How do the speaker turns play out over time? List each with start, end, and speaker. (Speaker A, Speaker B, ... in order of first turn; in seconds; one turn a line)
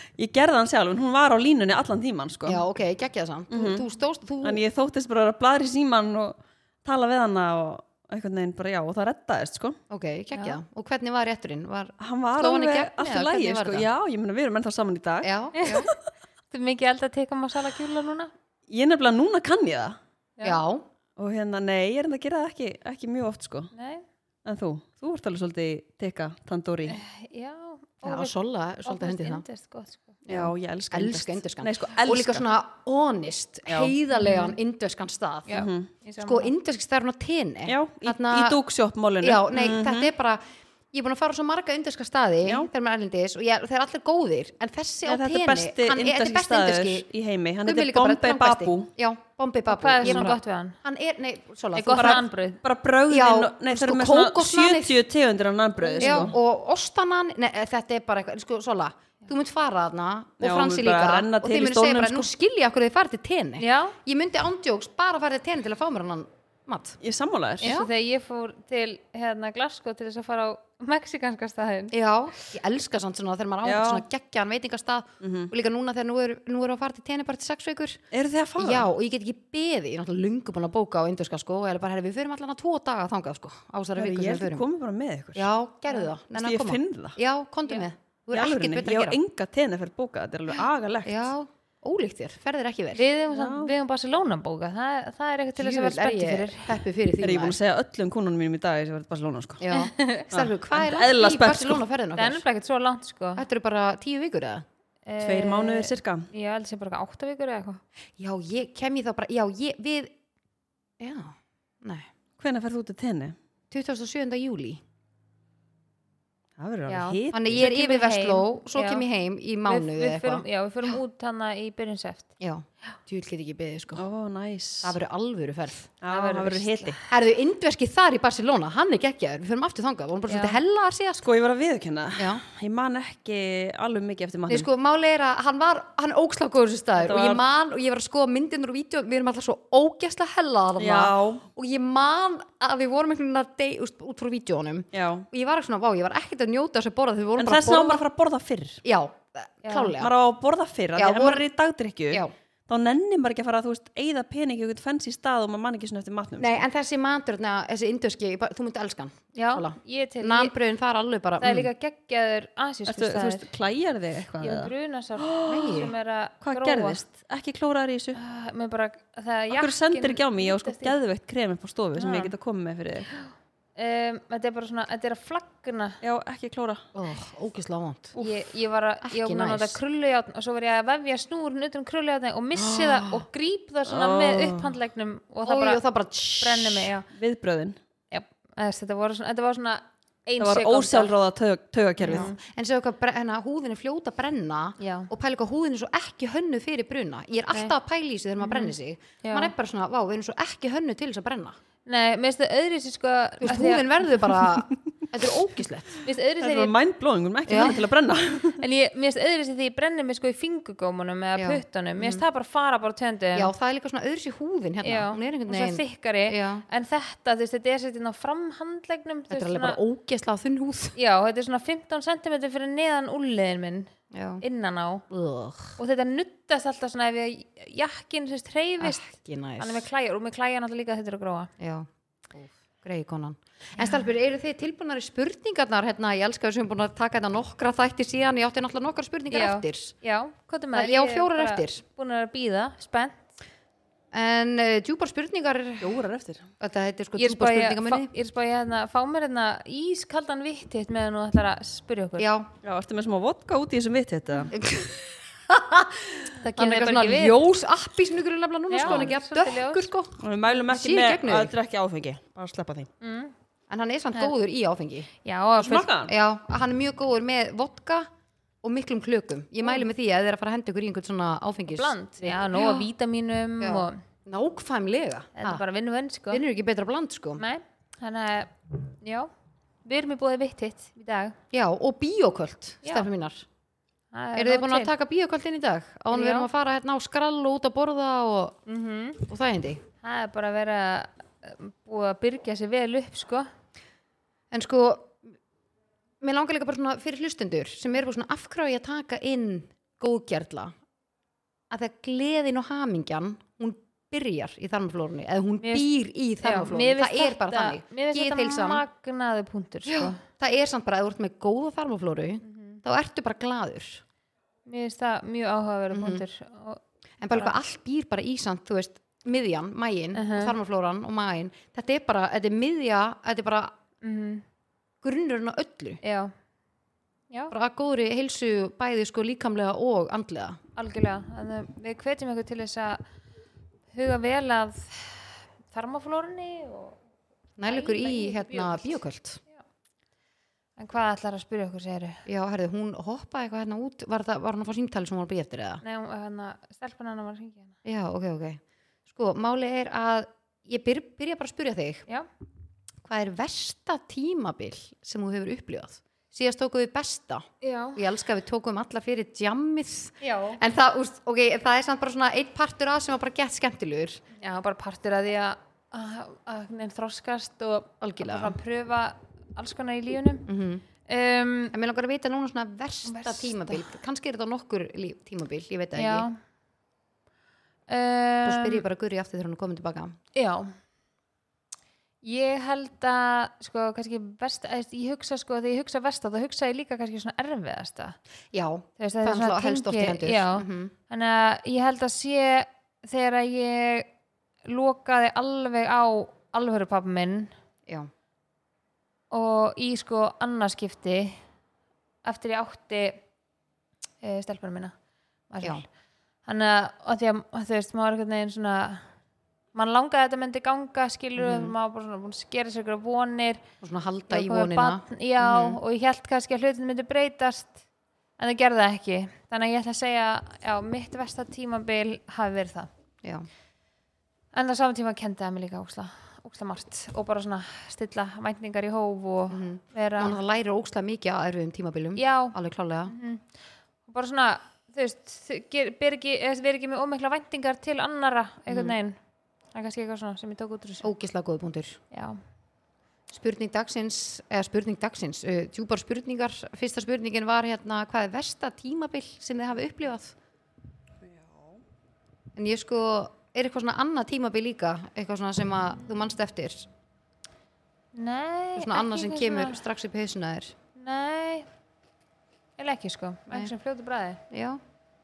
Speaker A: 0.2-2.6
Speaker B: 2.5-4.6
Speaker A: 3.5-3.8
Speaker A: 4.4-9.8
Speaker B: 9.9-13.9
Speaker C: 10.3-10.6
Speaker A: 12.0-15.9
Speaker B: 15.2-15.9
Speaker C: 15.6-15.9
Speaker C: 16.5-18.3
Speaker A: 18.7-20.0
Speaker C: 20.4-20.6
Speaker B: 20.4-20.9
Speaker A: 21.2-23.7
Speaker C: 23.7-24.0
Speaker A: 24.4-27.0
Speaker C: 26.9-30.2
Speaker B: 28.0-29.4
Speaker A: 30.3-32.4
Speaker B: 30.3-35.6
Speaker A: 33.7-34.0
Speaker C: 34.1-34.5
Speaker C: 35.5-36.5
Speaker A: 35.5-35.9
Speaker B: 36.2-38.6
Speaker A: 37.7-40.1
Speaker B: 39.2-47.0
Speaker A: 45.0-48.9
Speaker B: 47.6-52.2
Speaker C: 49.7-50.8
Speaker A: 50.0-50.3
Speaker C: 51.7-52.6
Speaker A: 51.9-56.3
Speaker B: 53.1-55.0
Speaker C: 55.8-56.3
Speaker B: 56.0-67.0
Speaker A: 60.4-62.3
Speaker C: 63.6-64.0
Speaker A: 67.0-67.7
Speaker C: 67.6-71.9
Speaker B: 67.6-67.9
Speaker B: 71.9-78.0
Speaker A: 73.6-74.0
Speaker A: 75.2-75.5
Speaker A: 78.1-78.9
Speaker B: 78.6-84.6
Speaker A: 84.0-85.5
Speaker B: 85.3-89.2
Speaker A: 86.4-87.2
Speaker A: 88.3-91.3
Speaker B: 91.0-93.0
Speaker C: 92.9-96.8
Speaker A: 93.3-93.7
Speaker B: 95.5-97.6
Speaker A: 97.2-99.6
Speaker B: 99.6-102.4
Speaker C: 99.7-100.3
Speaker A: 100.3-101.8
Speaker C: 102.2-103.4
Speaker B: 103.3-104.6
Speaker C: 105.0-107.8
Speaker A: 105.2-106.3
Speaker B: 108.2-110.1
Speaker B: 111.0-112.1
Speaker A: 112.4-113.3
Speaker B: 113.7-114.8
Speaker A: 116.6-117.7
Speaker C: 116.9-119.0
Speaker B: 117.3-120.4
Speaker C: 119.7-122.3
Speaker B: 122.4-124.0
Speaker A: 124.0-125.0
Speaker B: 124.8-125.9
Speaker A: 126.0-127.0
Speaker C: 126.1-127.0
Speaker B: 127.1-131.3
Speaker C: 130.3-130.6
Speaker A: 131.2-134.7
Speaker B: 132.2-132.4
Speaker B: 134.5-148.0
Speaker A: 137.0-137.4
Speaker A: 140.8-141.4
Speaker A: 144.9-145.2
Speaker A: 147.4-148.8
Speaker B: 148.8-150.1
Speaker C: 149.6-149.9
Speaker A: 150.0-156.7
Speaker B: 150.9-151.4
Speaker B: 156.4-161.7
Speaker C: 159.3-160.5
Speaker C: 161.4-163.5
Speaker A: 162.8-165.9
Speaker C: 164.4-167.0
Speaker B: 165.4-165.9
Speaker A: 166.4-168.2
Speaker C: 168.1-170.9
Speaker A: 169.5-173.1
Speaker C: 171.9-172.3
Speaker C: 173.8-176.0
Speaker A: 176.0-176.8
Speaker B: 176.9-178.2
Speaker C: 178.2-185.8
Speaker B: 179.0-179.8
Speaker A: 183.8-184.7
Speaker B: 185.4-186.9
Speaker C: 186.4-187.1
Speaker A: 187.1-187.8
Speaker C: 188.1-191.1
Speaker A: 190.4-192.3
Speaker B: 192.0-201.6
Speaker C: 192.1-192.4
Speaker C: 194.8-195.1
Speaker C: 198.4-199.5
Speaker C: 201.9-203.9
Speaker B: 203.4-206.0
Speaker C: 206.0-206.7
Speaker A: 206.4-208.6
Speaker B: 207.5-207.8
Speaker C: 208.5-213.5
Speaker B: 211.3-212.2
Speaker B: 213.3-216.7
Speaker C: 214.8-219.8
Speaker B: 219.3-220.9
Speaker C: 220.9-223.9
Speaker B: 224.1-224.4
Speaker C: 224.4-225.0
Speaker B: 225.1-225.8
Speaker C: 225.8-229.0
Speaker B: 228.8-229.8
Speaker C: 229.6-231.5
Speaker B: 231.6-239.9
Speaker C: 239.3-243.3
Speaker B: 240.7-241.8
Speaker B: 244.1-246.0
Speaker A: 245.8-246.5
Speaker B: 246.6-248.1
Speaker C: 247.2-252.3
Speaker B: 252.2-252.5
Speaker A: 252.6-254.5
Speaker B: 254.5-261.5
Speaker C: 256.4-257.4
Speaker C: 258.7-259.9
Speaker A: 260.2-262.9
Speaker C: 263.0-263.3
Speaker B: 263.7-265.1
Speaker C: 265.2-265.9
Speaker A: 265.6-266.1
Speaker B: 265.9-268.1
Speaker B: 268.6-272.9
Speaker C: 271.7-274.0
Speaker B: 273.6-275.6
Speaker C: 275.4-276.4
Speaker B: 276.3-277.4
Speaker C: 277.4-279.3
Speaker C: 279.8-281.4
Speaker B: 281.5-283.4
Speaker C: 284.1-284.9
Speaker B: 284.3-288.6
Speaker C: 286.1-286.5
Speaker C: 288.7-289.2
Speaker B: 289.2-289.8
Speaker C: 290.0-293.5
Speaker B: 294.5-295.2
Speaker B: 296.2-300.7
Speaker B: 301.7-308.8
Speaker C: 305.6-305.9
Speaker C: 306.4-310.2
Speaker B: 309.8-314.0
Speaker C: 312.4-312.8
Speaker C: 314.6-317.5
Speaker B: 315.9-316.2
Speaker B: 317.2-323.7
Speaker C: 320.1-320.6
Speaker C: 324.0-324.4
Speaker B: 325.0-326.0
Speaker C: 326.0-326.3
Speaker B: 327.5-330.6
Speaker C: 330.8-333.0
Speaker C: 333.9-337.0
Speaker B: 337.6-339.4
Speaker C: 337.6-338.9
Speaker C: 340.8-342.2
Speaker B: 342.2-345.8
Speaker C: 345.8-347.8
Speaker B: 347.8-352.0
Speaker B: 353.0-364.2
Speaker C: 357.6-358.0
Speaker C: 360.2-360.6
Speaker C: 364.4-370.5
Speaker B: 368.0-368.6
Speaker B: 370.5-370.8
Speaker C: 371.1-371.7
Speaker B: 371.7-376.3
Speaker C: 373.0-373.9
Speaker C: 375.9-376.4
Speaker C: 377.9-378.8
Speaker B: 378.4-380.1
Speaker C: 380.3-380.7
Speaker C: 382.2-388.2
Speaker B: 388.5-390.9
Speaker C: 389.0-394.1
Speaker C: 394.6-397.5
Speaker C: 399.3-401.4
Speaker C: 402.2-403.2
Speaker C: 404.2-404.9
Speaker C: 405.5-405.9
Speaker C: 406.4-409.1
Speaker C: 409.7-413.6
Speaker B: 411.4-411.7
Speaker B: 413.8-415.8
Speaker C: 414.3-417.8
Speaker C: 418.4-422.9
Speaker B: 423.2-423.5
Speaker C: 424.5-430.4
Speaker B: 429.5-433.1
Speaker C: 432.1-432.6
Speaker C: 433.1-433.4
Speaker C: 434.1-439.2
Speaker B: 438.7-438.9
Speaker C: 439.7-441.1
Speaker B: 441.0-442.0
Speaker C: 442.1-442.4
Speaker B: 443.3-450.3
Speaker A: 451.2-451.8
Speaker B: 452.6-456.9
Speaker C: 458.1-459.8
Speaker B: 458.7-460.8
Speaker C: 460.9-461.7
Speaker C: 462.8-464.4
Speaker B: 464.5-464.8